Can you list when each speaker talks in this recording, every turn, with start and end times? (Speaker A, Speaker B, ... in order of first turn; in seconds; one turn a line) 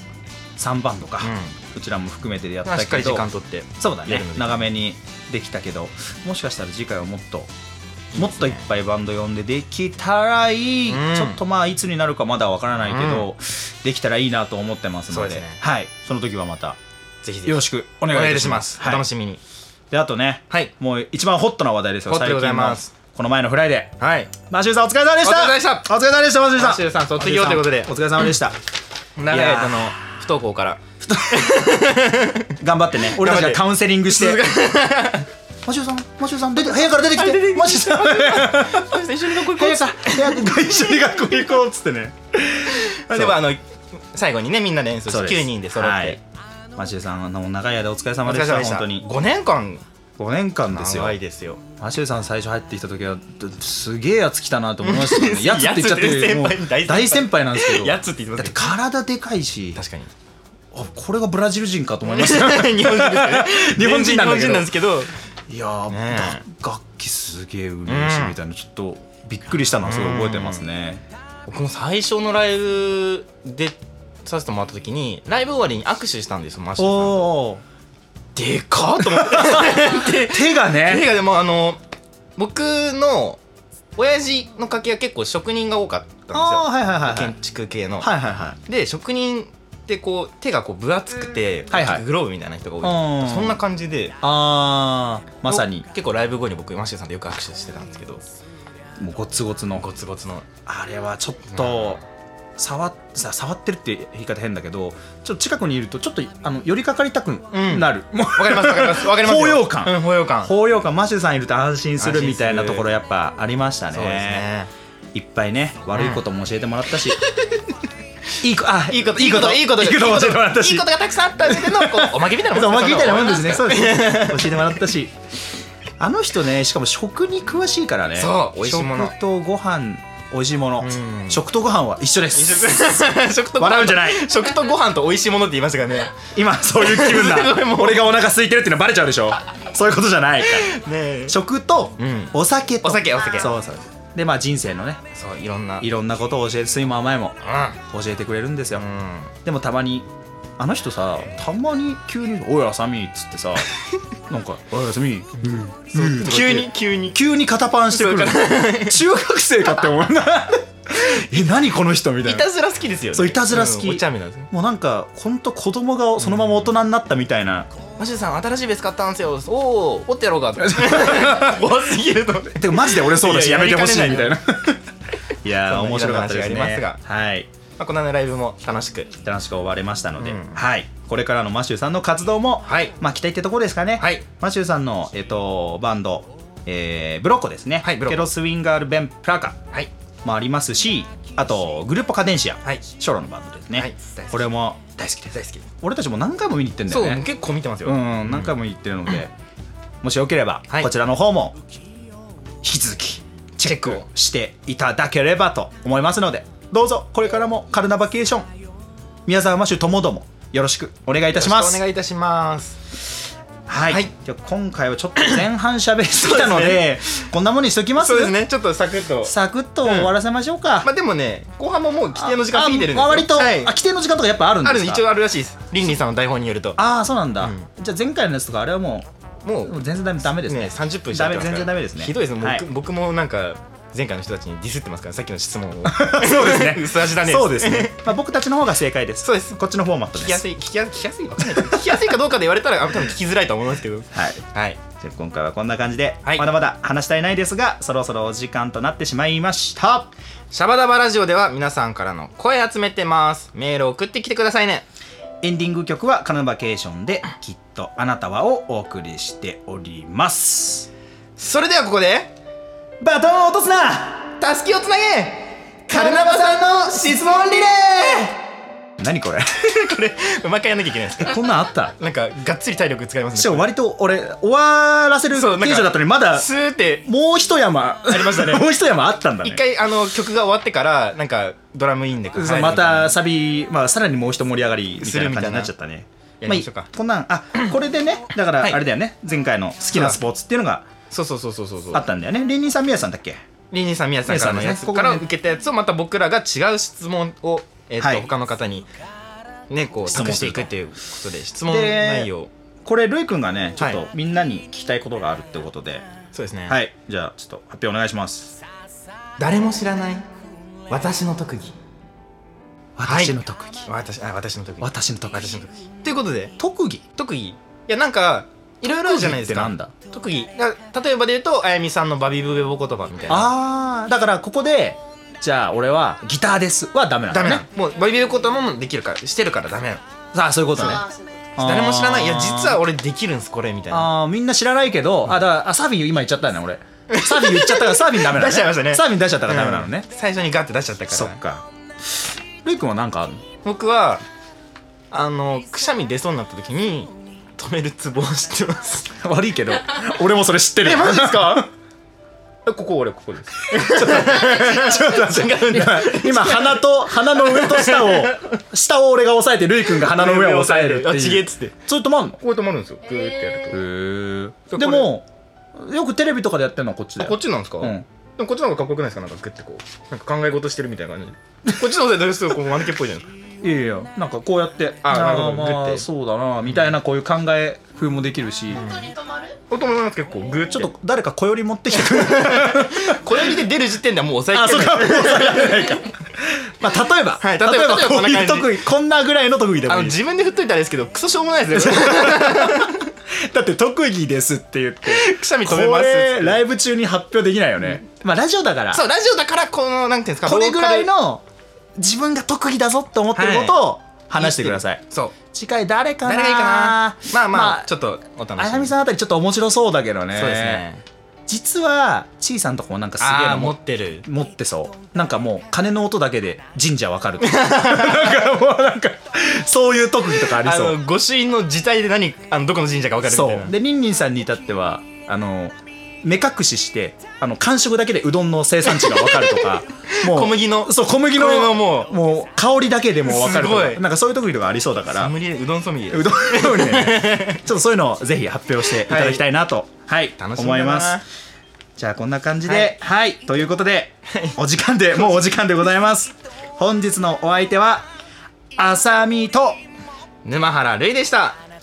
Speaker A: 0.6-3.3
Speaker B: 1.2-1.6
Speaker B: 2.6-4.7
Speaker A: 3.8-7.5
Speaker B: 8.1-8.6
Speaker A: 8.1-16.8
Speaker B: 10.9-11.4
Speaker B: 12.9-13.3
Speaker B: 15.1-15.6
Speaker B: 17.2-19.4
Speaker A: 17.4-19.1
Speaker A: 19.9-28.6
Speaker B: 22.1-22.9
Speaker B: 24.0-24.3
Speaker B: 25.2-25.9
Speaker B: 26.6-27.9
Speaker B: 29.2-35.3
Speaker A: 29.3-29.9
Speaker A: 31.0-31.5
Speaker A: 32.6-34.4
Speaker A: 35.7-43.4
Speaker B: 36.9-40.5
Speaker B: 42.7-46.2
Speaker A: 45.1-46.2
Speaker A: 46.8-49.1
Speaker B: 48.2-49.8
Speaker A: 50.2-51.2
Speaker B: 50.7-51.6
Speaker A: 51.8-59.8
Speaker B: 54.8-58.7
Speaker B: 59.8-60.1
Speaker A: 60.7-64.7
Speaker B: 62.0-65.1
Speaker A: 65.5-71.0
Speaker B: 65.9-66.4
Speaker B: 67.9-68.4
Speaker B: 69.8-70.6
Speaker B: 71.5-77.2
Speaker A: 76.8-77.6
Speaker B: 78.3-81.8
Speaker A: 79.0-81.1
Speaker B: 82.4-83.4
Speaker B: 84.0-88.1
Speaker A: 86.3-87.3
Speaker A: 88.0-88.6
Speaker B: 88.7-94.2
Speaker A: 91.7-92.0
Speaker A: 92.8-93.6
Speaker A: 94.2-95.9
Speaker B: 95.5-98.2
Speaker A: 99.0-99.9
Speaker B: 99.8-100.5
Speaker A: 100.7-102.0
Speaker B: 101.5-102.0
Speaker A: 102.6-114.5
Speaker B: 107.5-110.5
Speaker B: 112.0-112.9
Speaker B: 113.9-114.7
Speaker A: 115.1-117.2
Speaker B: 115.9-116.2
Speaker A: 118.4-125.1
Speaker B: 118.9-124.8
Speaker A: 126.0-133.1
Speaker B: 128.2-129.2
Speaker B: 130.8-131.4
Speaker B: 132.3-136.2
Speaker A: 133.6-134.3
Speaker A: 136.3-145.0
Speaker B: 136.7-138.2
Speaker B: 140.4-141.4
Speaker B: 142.0-143.6
Speaker B: 145.1-145.9
Speaker A: 145.8-148.9
Speaker B: 147.4-147.8
Speaker B: 148.8-149.3
Speaker A: 149.4-153.7
Speaker A: 154.3-162.5
Speaker B: 155.9-157.2
Speaker B: 157.9-159.0
Speaker B: 162.2-164.5
Speaker A: 163.1-167.7
Speaker B: 166.2-166.7
Speaker B: 168.0-174.4
Speaker A: 170.6-171.6
Speaker A: 172.6-174.8
Speaker A: 175.4-177.5
Speaker B: 175.5-177.0
Speaker B: 177.8-179.1
Speaker A: 179.2-189.6
Speaker B: 180.2-180.6
Speaker B: 182.7-182.9
Speaker B: 184.0-184.2
Speaker B: 187.8-188.3
Speaker A: 190.2-197.3
Speaker B: 193.8-194.5
Speaker B: 195.3-195.7
Speaker B: 196.9-198.6
Speaker A: 197.8-199.3
Speaker A: 200.0-201.6
Speaker A: 202.6-208.5
Speaker B: 203.6-204.1
Speaker A: 209.3-211.8
Speaker B: 211.3-213.0
Speaker A: 213.7-218.4
Speaker B: 216.2-217.2
Speaker B: 217.9-220.2
Speaker A: 219.2-220.9
Speaker B: 220.8-223.8
Speaker A: 222.2-225.0
Speaker B: 224.6-226.8
Speaker A: 226.8-229.1
Speaker B: 227.4-227.7
Speaker B: 229.4-229.8
Speaker A: 229.7-232.7
Speaker B: 230.4-238.1
Speaker A: 235.9-240.4
Speaker B: 239.2-239.6
Speaker B: 240.1-244.8
Speaker A: 244.1-250.1
Speaker B: 250.5-254.8
Speaker A: 255.4-260.9
Speaker B: 261.4-262.3
Speaker A: 263.0-264.3
Speaker B: 264.4-267.6
Speaker A: 265.9-268.4
Speaker A: 269.0-269.6
Speaker B: 269.6-271.4
Speaker A: 271.2-271.9
Speaker B: 272.0-273.7
Speaker A: 273.3-276.5
Speaker B: 275.3-277.1
Speaker A: 277.1-279.6
Speaker B: 278.1-278.8
Speaker B: 279.4-283.2
Speaker A: 282.4-290.9
Speaker B: 285.0-285.7
Speaker B: 286.4-286.9
Speaker B: 289.9-290.2
Speaker B: 291.1-292.1
Speaker A: 291.9-293.4
Speaker B: 293.7-298.9
Speaker A: 294.3-295.3
Speaker A: 298.0-298.3
Speaker B: 299.7-302.5
Speaker A: 300.1-300.7
Speaker A: 301.7-302.3
Speaker A: 302.8-306.1
Speaker B: 303.8-304.0
Speaker B: 306.3-306.8
Speaker A: 306.7-308.6
Speaker B: 309.4-310.3
Speaker B: 310.9-311.8
Speaker A: 313.0-313.9
Speaker B: 313.1-316.6
Speaker A: 314.8-315.6
Speaker A: 316.6-317.0
Speaker B: 317.1-323.5
Speaker A: 319.0-319.9
Speaker A: 323.3-327.6
Speaker B: 327.3-330.0
Speaker A: 330.3-331.0
Speaker B: 330.8-331.0
Speaker C: 330.8-331.6
Speaker A: 331.6-332.8
Speaker B: 331.6-334.1
Speaker A: 333.9-340.1
Speaker B: 337.1-341.4
Speaker A: 341.1-341.6
Speaker A: 342.6-343.4
Speaker B: 343.6-344.2
Speaker B: 345.1-349.1
Speaker A: 349.2-351.7
Speaker B: 350.8-351.7
Speaker B: 352.6-358.6
Speaker A: 353.7-362.4
Speaker C: 354.2-355.1
Speaker B: 359.9-361.8
Speaker B: 362.4-363.8
Speaker C: 363.0-363.8
Speaker A: 363.7-368.1
Speaker B: 364.7-365.1
Speaker B: 367.2-373.3
Speaker A: 373.6-378.9
Speaker B: 375.0-376.1
Speaker B: 376.7-377.0
Speaker B: 378.7-379.1
Speaker C: 378.7-379.6
Speaker B: 379.7-380.9
Speaker A: 380.7-383.6
Speaker B: 381.9-386.0
Speaker A: 384.5-390.2
Speaker B: 387.4-388.9
Speaker B: 389.9-393.0
Speaker A: 391.8-399.0
Speaker B: 395.1-396.6
Speaker B: 398.9-401.1
Speaker A: 400.4-401.4
Speaker A: 402.0-407.9
Speaker B: 403.3-403.8
Speaker B: 404.4-405.4
Speaker B: 406.2-408.9
Speaker A: 408.6-410.9
Speaker B: 410.3-411.0
Speaker A: 411.5-421.0
Speaker B: 413.2-414.2
Speaker B: 417.4-418.5
Speaker B: 420.4-423.8
Speaker A: 423.2-435.4
Speaker B: 428.9-432.2
Speaker B: 433.2-434.1
Speaker B: 435.1-437.6
Speaker A: 436.1-441.2
Speaker B: 438.9-439.5
Speaker B: 440.4-441.2
Speaker A: 442.0-448.1
Speaker B: 442.6-443.0
Speaker B: 444.3-444.6
Speaker A: 448.8-449.8
Speaker B: 450.4-451.6